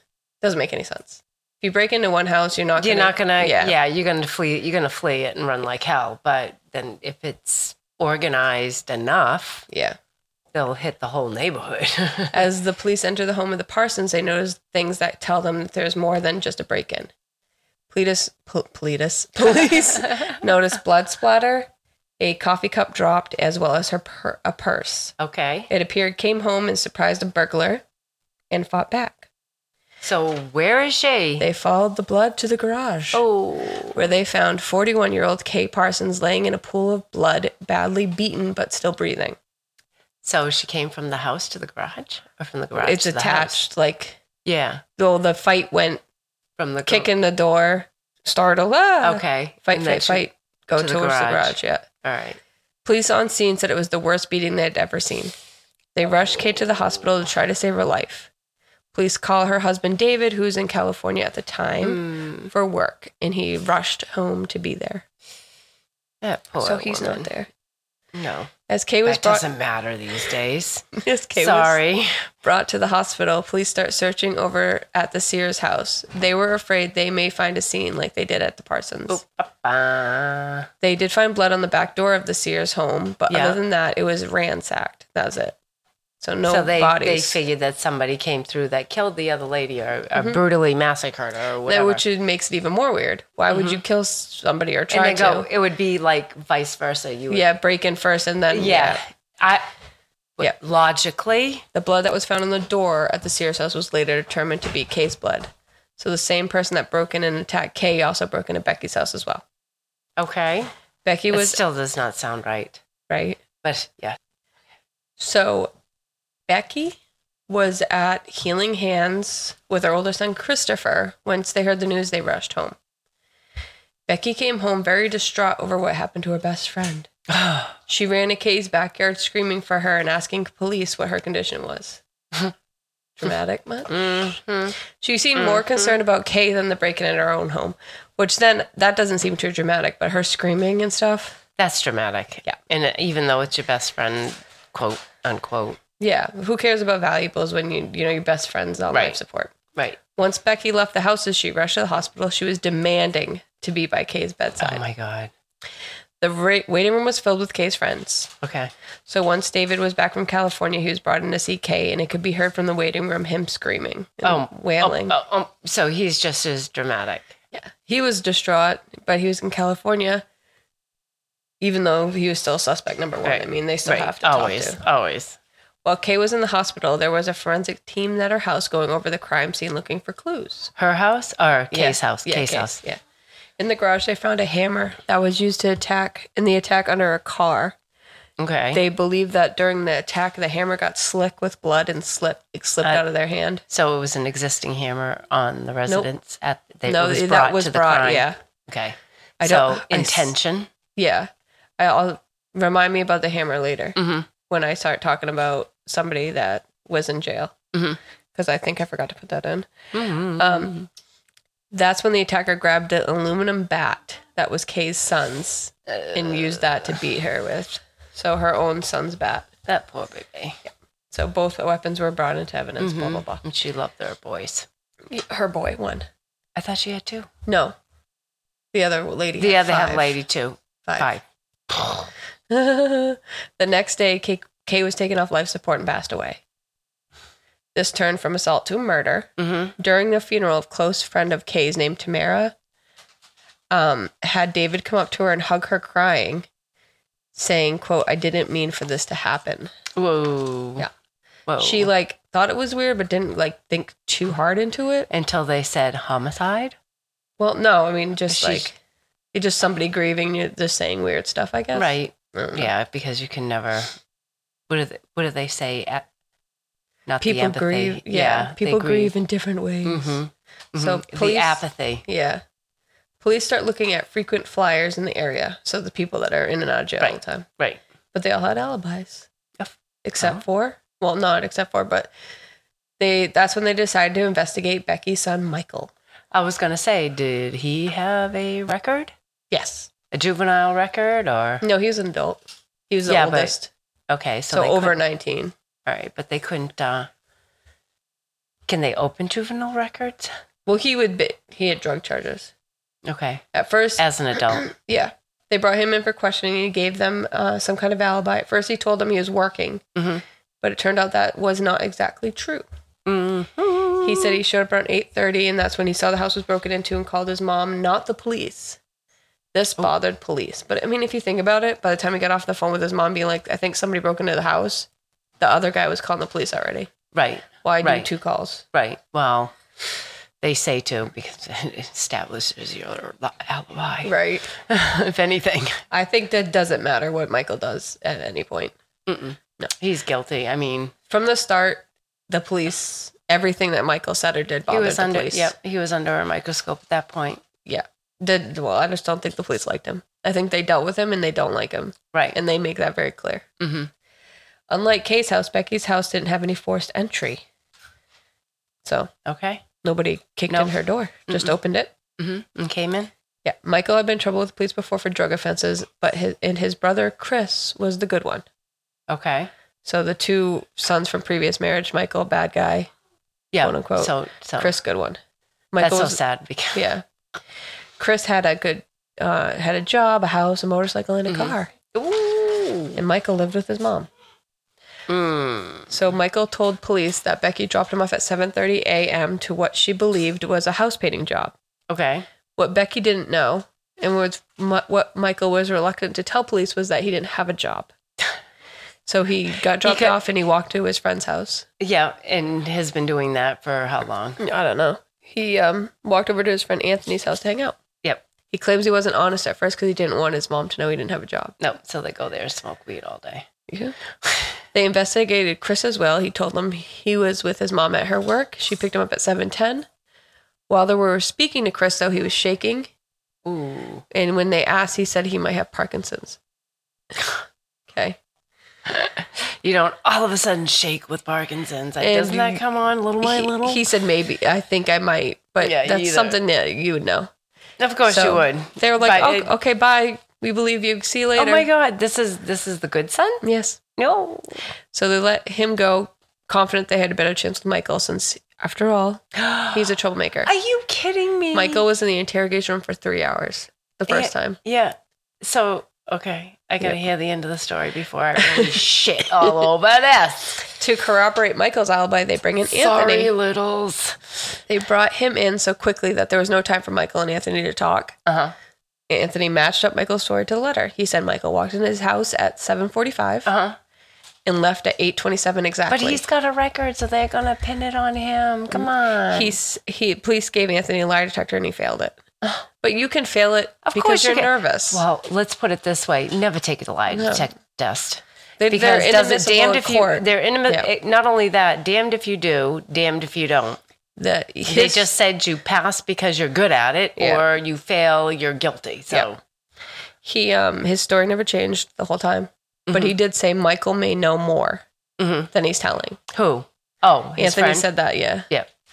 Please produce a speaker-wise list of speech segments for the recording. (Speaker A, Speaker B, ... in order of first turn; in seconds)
Speaker A: 0.4-3.7, 9.7-9.9, 12.3-17.1, 17.9-21.7, 22.2-25.1, 25.7-27.8, 28.5-29.3, 31.4-33.2, 33.9-39.4, 42.8-44.2, 45.0-46.0, 46.9-51.9, 52.8-55.3, 55.9-58.3, 58.9-65.0, 66.6-67.5, 68.7-69.5, 70.9-71.8, 72.4-79.2, 80.8-85.6, 86.2-87.4, 90.1-90.4, 91.7-95.5, 97.3-99.0, 101.7-109.4, 111.0-111.6, 113.1-113.4, 115.2-115.7, 116.5-122.8, 124.1-127.1, 127.9-132.0, 133.2-134.1, 134.9-141.4, 146.0-149.5, 150.1-154.8, 156.2-158.3, 159.1-165.2, 167.5-170.2, 171.6-174.8, 175.8-180.7, 181.7-183.0, 183.6-187.8, 188.7-193.6, 196.8-198.4, 199.4-200.3, 200.9-207.6, 208.3-209.7, 210.3-210.7, 211.7-219.5, 221.1-223.4, 225.1-226.1, 227.4-227.8, 228.7-230.2, 232.5-236.4, 237.7-242.5, 243.7-246.5, 247.3-249.7, 251.6-255.1, 257.4-258.8, 259.3-262.7, 267.2-270.2, 270.7-272.4, 273.2-277.4, 278.1-279.3, 280.0-282.1, 283.0-285.9, 289.5-289.9, 291.6-293.7, 294.5-295.5, 300.6-302.5, 303.5-309.8, 310.6-312.6, 314.0-318.8, 319.5-324.9, 325.4-326.9, 327.6-328.6, 334.0-334.5, 335.9-338.7, 341.1-345.5, 347.6-353.5, 354.7-357.4, 358.8-359.1, 359.8-361.9, 363.4-368.4, 369.8-372.9, 373.6-375.2, 375.7-376.2, 376.7-377.0, 378.0-381.7, 382.9-384.1, 385.9-391.5, 392.6-397.9, 399.1-401.7, 404.4-407.8, 408.5-411.5, 413.7-413.9, 414.7-419.9, 420.7-422.9, 424.1-426.4, 427.9-428.2, 432.0-432.6, 433.2-437.3, 438.0-441.7, 443.4-443.8, 444.9-450.5, 451.5-454.6, 458.5-458.8, 460.8-463.3, 464.7-468.2, 469.1-473.5, 474.4-476.2, 478.7-482.2, 482.8-485.0, 487.1-487.5, 488.6-490.9, 494.2-495.1, 497.2-497.4, 500.2-504.8, 505.5-506.2, 507.4-508.5
Speaker B: 2.8-9.7, 10.5-12.4, 19.4-20.3, 25.2-25.7, 30.0-31.4, 33.1-34.0, 40.2-43.6, 44.4-44.8, 46.6-47.1, 49.0-52.4, 61.8-62.5, 66.2-67.3, 68.1-68.5, 69.0-72.2, 79.1-80.7, 83.3-83.6, 86.5-92.0, 93.5-93.8, 94.9-97.5, 98.5-99.7, 100.4-101.7, 110.2-110.7, 111.3-112.8, 113.6-114.2, 127.3-127.7, 133.9-134.8, 135.3-135.9, 141.6-145.8, 148.9-149.2, 154.6-155.3, 158.4-158.7, 164.2-167.3, 173.2-175.4, 180.8-182.8, 188.4-188.8, 193.7-200.7, 203.9-204.3, 209.9-210.9, 215.9-216.9, 219.7-220.6, 222.8-224.7, 226.6-227.3, 229.4-232.1, 239.4-239.7, 249.9-250.9, 251.5-251.9, 255.1-256.8, 258.3-258.7, 261.7-264.0, 264.7-266.1, 267.1-269.1, 269.8-272.0, 277.0-277.8, 279.6-280.4, 286.3-289.1, 290.1-291.6, 293.1-293.6, 294.1-295.0, 295.9-297.1, 298.7-300.3, 303.0-303.4, 304.0-304.6, 309.9-310.2, 313.1-314.4, 327.1-328.1, 328.7-329.5, 330.4-335.8, 339.1-340.9, 344.7-347.4, 353.6-353.9, 359.2-359.6, 362.2-363.1, 369.1-369.5, 373.5-374.8, 375.8-376.8, 381.3-383.0, 385.1-385.9, 391.9-392.2, 399.8-400.1, 401.8-404.4, 411.6-413.5, 414.2-414.5, 423.4-424.0, 428.9-433.8, 435.6-436.4, 437.8-439.5, 441.4-443.4, 444.0-444.6, 449.3-449.9, 450.4-451.8, 454.1-460.7, 462.7-464.6, 468.2-468.5, 473.4-473.8, 475.9-479.6, 483.8-493.8, 494.7-499.4, 502.9-503.1, 505.2-505.5, 506.3-507.9